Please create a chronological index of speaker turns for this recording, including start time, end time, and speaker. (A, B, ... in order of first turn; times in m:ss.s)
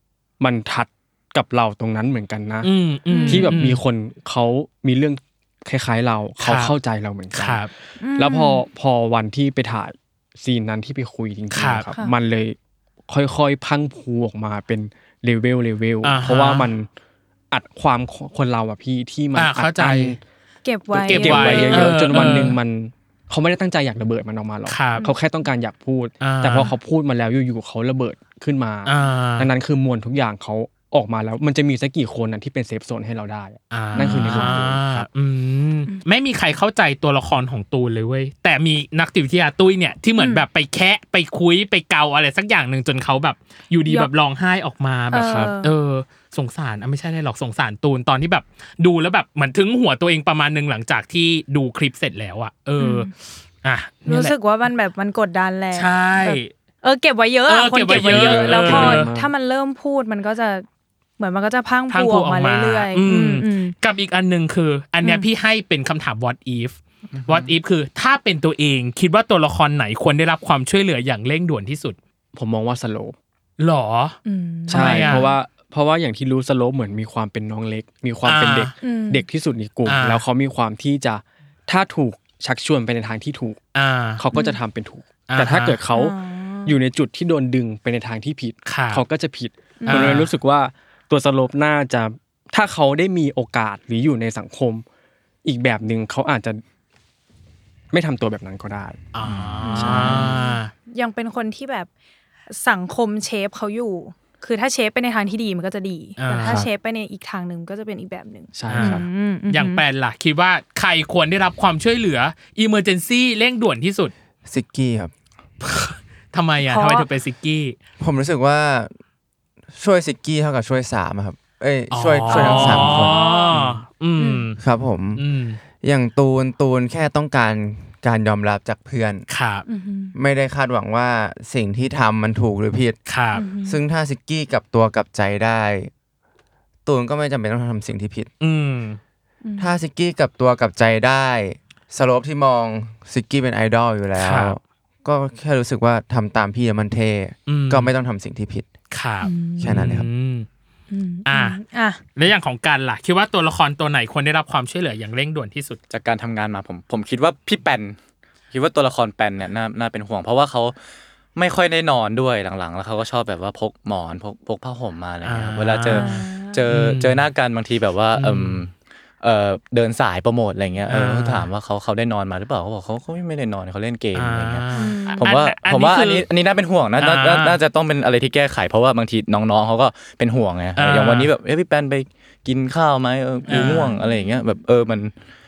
0:00.4-0:02.7 A
0:02.6-0:03.8 B
0:03.1-0:03.6 C
0:03.2-0:12.6 A
0:06.4-0:06.7 B
0:07.3-0:07.7 B
0:08.0-0:08.6 C
0:11.5-0:11.9 B
0:13.1-0:16.9 A
0:16.0-0:16.7 B
0:17.5-0:20.2 A
0:19.4-0:20.2 B
0:20.6-0:22.4 C
0:20.9-0:35.1 A
0:21.1-0:22.6 B
0:24.7-0:25.1 B
0:26.2-0:26.7 B
0:28.9-0:29.5 B
0:33.7-0:53.1 B
0:33.9-0:34.7 C
0:40.2-0:40.4 C
0:45.1-0:45.7 C
0:45.2-0:45.5 A
0:52.8-0:53.1 C
0:53.6-0:54.4 B
0:54.1-1:00.7 C
0:55.7-0:56.5 B
0:57.5-0:59.1 B
0:57.9-0:58.2 D
0:58.0-0:59.3 A
1:01.2-1:03.7 C
1:01.9-1:12.0 B
1:07.1-1:07.5 D
1:12.3-1:13.2 A
1:13.6-1:14.2 B
1:14.2-1:15.4 C
1:14.7-1:15.2 B
1:14.7-1:23.6 A
1:18.2-1:18.7 B
1:18.8-1:19.3 C
1:19.8-1:20.2 B
1:23.8-1:24.2 B
1:24.2-1:34.8 A
1:24.3-1:24.6 C
1:25.3-1:25.8 B
1:25.9-1:26.8 C
1:28.7-1:29.0 B
1:29.8-1:30.2 C
1:29.9-1:30.3 B
1:35.4-1:36.6 A
1:37.9-1:39.0 A
1:39.1-1:40.7 B
1:39.3-1:39.7 D
1:39.6-1:41.9 C
1:39.8-1:40.4 A
1:42.5-1:49.8 C
1:46.2-1:46.7 B
1:48.5-1:49.1 A
1:48.7-1:54.1 B
1:54.5-1:55.1 E
1:55.6-1:57.8 B
1:56.7-1:57.1 C
1:58.0-1:58.9 E
1:59.7-2:03.8 E
2:01.9-2:04.6 B
2:02.3-2:03.6 C
2:04.2-2:04.5 C
2:04.6-2:05.2 E
2:05.2-2:05.6 B
2:05.8-2:09.3 E
2:09.3-2:09.6 B
2:09.7-2:10.2 C
2:10.2-2:13.0 E
2:13.1-2:13.4 B
2:13.3-2:13.8 C
2:13.6-2:15.9 E
2:16.9-2:18.3 E
2:18.4-2:19.0 B
2:19.4-2:19.8 C
2:19.6-2:28.7 E
2:24.2-2:24.6 B
2:27.5-2:27.9 B
2:28.9-2:30.5 B
2:29.2-2:29.8 C
2:29.6-2:30.1 E
2:30.9-2:32.0 C
2:31.3-2:31.6 B
2:32.2-2:35.8 B
2:35.9-2:38.0 D
2:38.5-2:40.8 D
2:41.4-3:05.1 D
2:45.2-2:47.3 B
2:45.9-2:46.6 C
2:48.2-2:48.6 B
2:50.9-2:51.5 B
2:54.1-2:56.3 B
2:54.7-2:55.3 C
2:57.0-2:57.6 B
3:00.8-3:01.3 B
3:03.5-3:04.0 B
3:03.6-3:04.2 C